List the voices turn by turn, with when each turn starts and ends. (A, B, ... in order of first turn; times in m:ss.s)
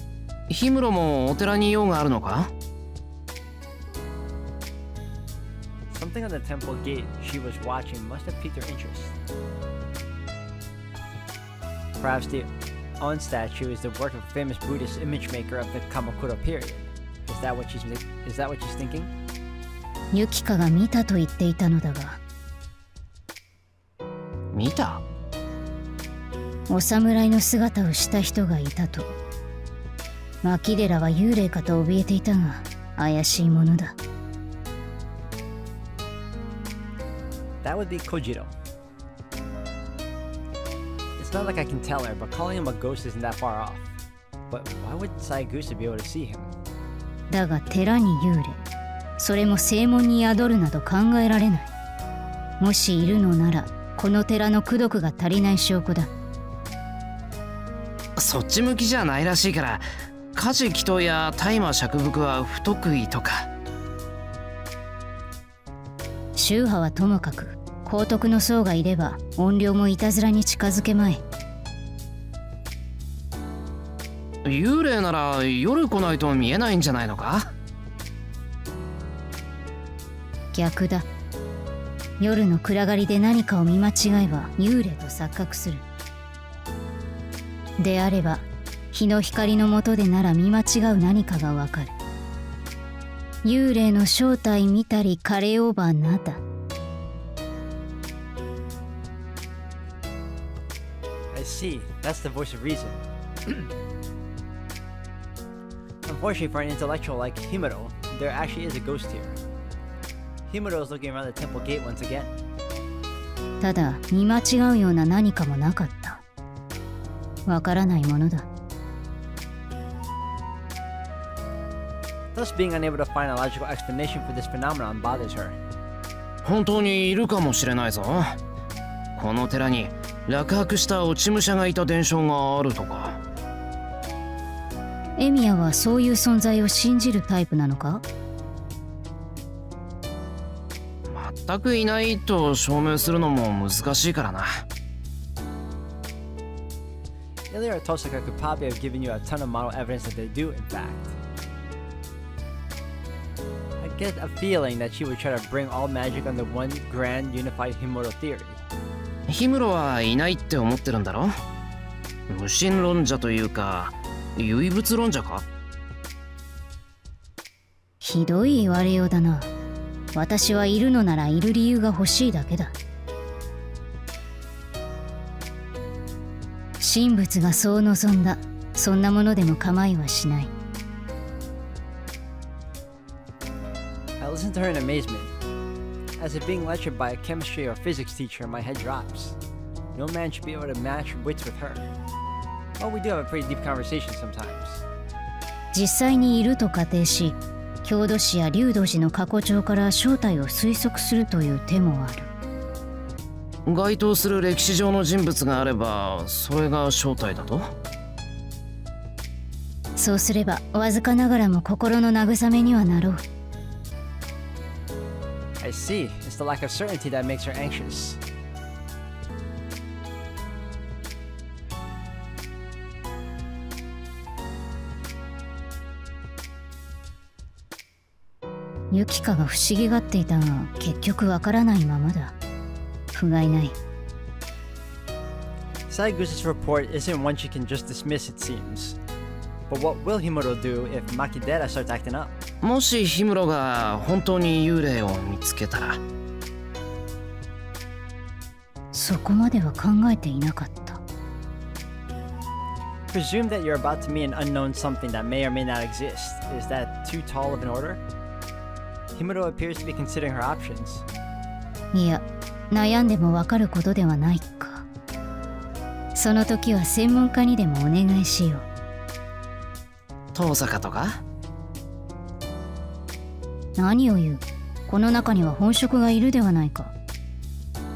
0:00.5-0:02.5 A
0:05.9-0:09.2 B
0:12.0-0:19.1 B
0:20.1-0:22.2 C
0:24.5-0:25.0 A
0:26.7-0:29.1 C
0:30.4-0:33.9 C
0:37.6-0:38.5 B
0:41.2-0:43.9 B
0:44.5-0:46.5 B
0:47.3-0:48.6 C
0:49.2-0:51.7 C
0:52.6-0:56.1 C
0:58.2-1:03.5 A
1:06.3-1:11.2 C
1:14.4-1:17.5 A
1:20.5-1:21.0 C
1:22.2-1:25.8 C
1:27.8-1:31.9 C
1:33.4-1:36.4 C
1:41.3-1:43.6 B
1:46.0-1:49.4 B
1:50.5-1:52.4 B
1:53.6-1:56.2 C
1:57.4-1:58.5 C
2:02.3-2:05.6 B
2:06.4-2:08.4 A
2:09.2-2:13.2 A
2:15.2-2:18.0 C
2:21.0-2:24.6 A
2:27.5-2:31.2 B
2:33.8-2:38.6 B
2:39.3-2:41.4 A
2:42.3-2:45.4 A
2:48.0-2:49.5 C
2:50.1-2:52.7 C
2:56.8-3:00.5 C
3:04.2-3:05.3 B
3:06.2-3:09.4 B
3:09.9-3:11.9 B
3:12.8-3:14.8 B
3:15.7-3:22.3 C
3:23.6-3:27.7 A
3:30.0-3:33.2 C
3:35.6-3:38.2 B
3:48.9-3:52.3 C
3:53.1-3:53.8 C
3:55.9-3:59.0 B
3:59.7-4:02.3 B
4:02.6-4:06.0 A
4:08.9-4:11.0 C
4:13.1-4:18.0 B
4:19.1-4:21.0 B
4:21.9-4:24.8 C
4:26.1-4:28.6 C
4:30.3-4:31.2 A
4:33.8-4:36.9 C